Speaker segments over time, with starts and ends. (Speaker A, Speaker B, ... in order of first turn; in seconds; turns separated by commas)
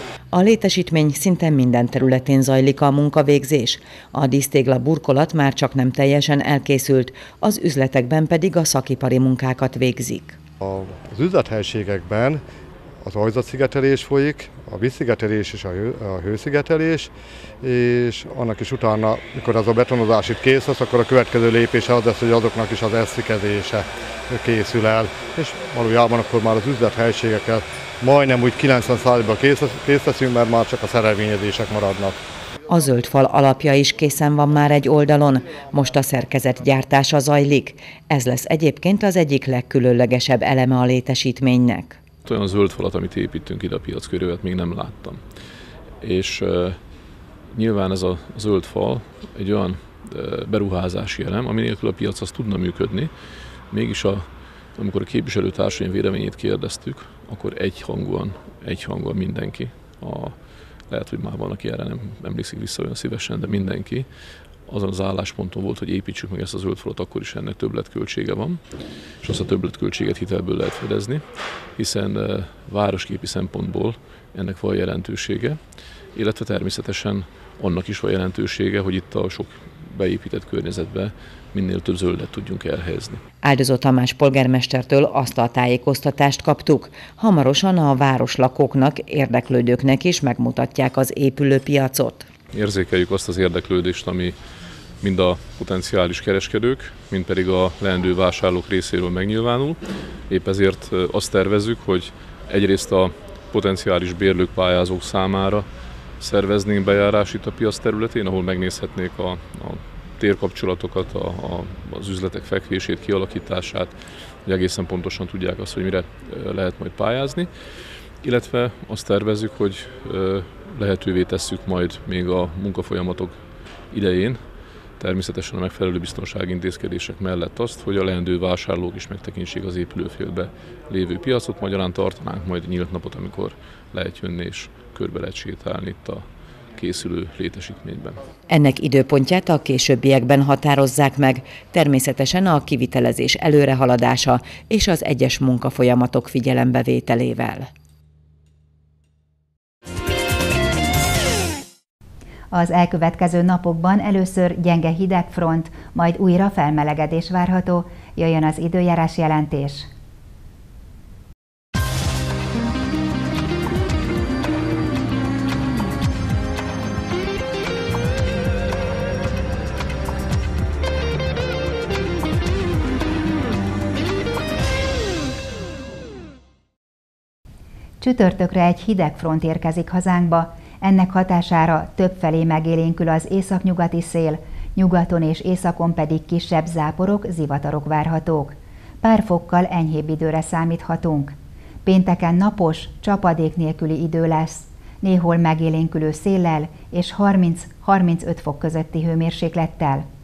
Speaker A: 0.3-10.4, Speaker B: 10.6-12.4, Speaker B: 13.0-17.1, Speaker B: 17.6-32.1, Speaker A: 32.7-42.0, Speaker C: 42.2-45.2, Speaker C: 46.0-46.8, Speaker C: 47.5-53.1, Speaker C: 53.7-75.6, Speaker C: 76.1-83.2, Speaker A: 83.4-92.3, Speaker C: 92.5-94.3, Speaker C: 95.0-105.7, Speaker C: 106.2-117.5, Speaker C: 118.2-124.5, Speaker C: 125.0-138.2, Speaker A: 138.5-147.7, Speaker D: 152.5-159.9, Speaker D: 178.0-200.1